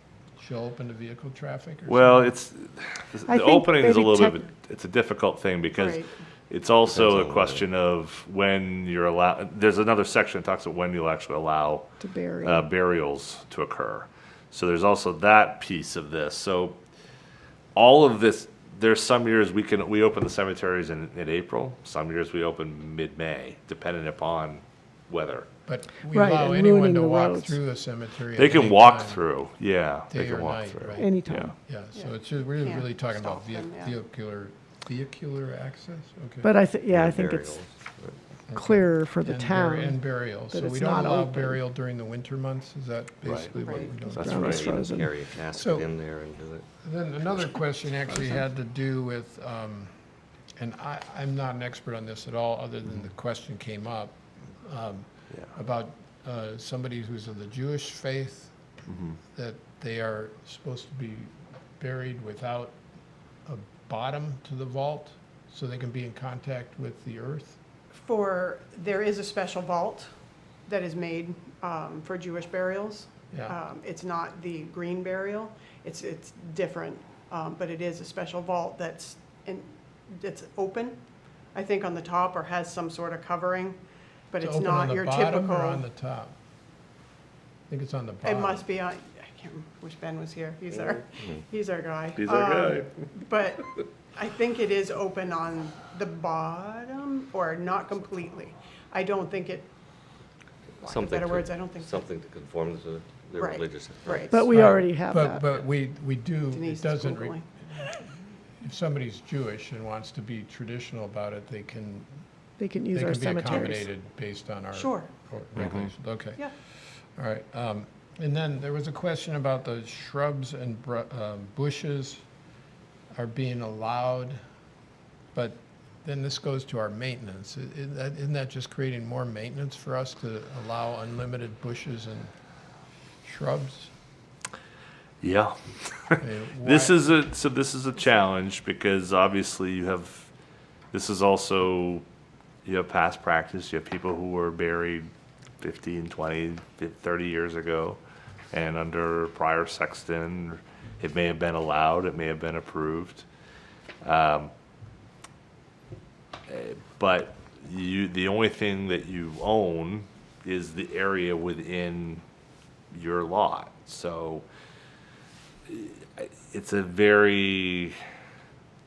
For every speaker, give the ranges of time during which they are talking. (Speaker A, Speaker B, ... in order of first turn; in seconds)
Speaker A: 0.4-2.3, 25.7-29.3, 30.1-36.5, 38.5-44.7, 45.5-45.9, 46.8-50.0, 50.6-58.6, 59.2-62.8, 63.5-67.6, 73.3-73.6, 84.4-86.3, 87.7-88.7, 104.5-107.9, 108.5-112.2, 112.9-122.2, 123.1-124.4, 125.3-132.3, 133.2-133.9, 136.2-137.1
Speaker B: 1.9-11.9, 12.4-16.8, 17.8-25.5, 28.3-31.5, 43.2-43.5, 44.2-44.7, 58.9-59.2, 92.2-93.1, 115.6-115.9, 135.2-140.3, 140.9-142.1, 142.6-145.1, 145.6-148.0, 148.5-153.3, 154.0-154.5, 156.5-162.2, 162.9-164.4, 165.7-168.0
Speaker C: 3.3-4.5, 12.0-12.7, 26.1-27.6, 30.9-31.5, 36.4-37.6, 38.5-41.6, 43.9-45.1, 104.2-105.5, 112.6-113.9
Speaker D: 5.8-6.1, 31.9-34.0, 43.6-43.9, 67.9-70.1, 70.7-81.0, 81.5-83.8, 84.3-85.9, 88.2-99.7, 100.8-102.0, 103.4-104.5, 106.5-108.1, 114.7-115.1
Speaker E: 6.8-7.7, 36.9-38.2, 43.8-46.6, 90.8-91.5, 100.8-104.3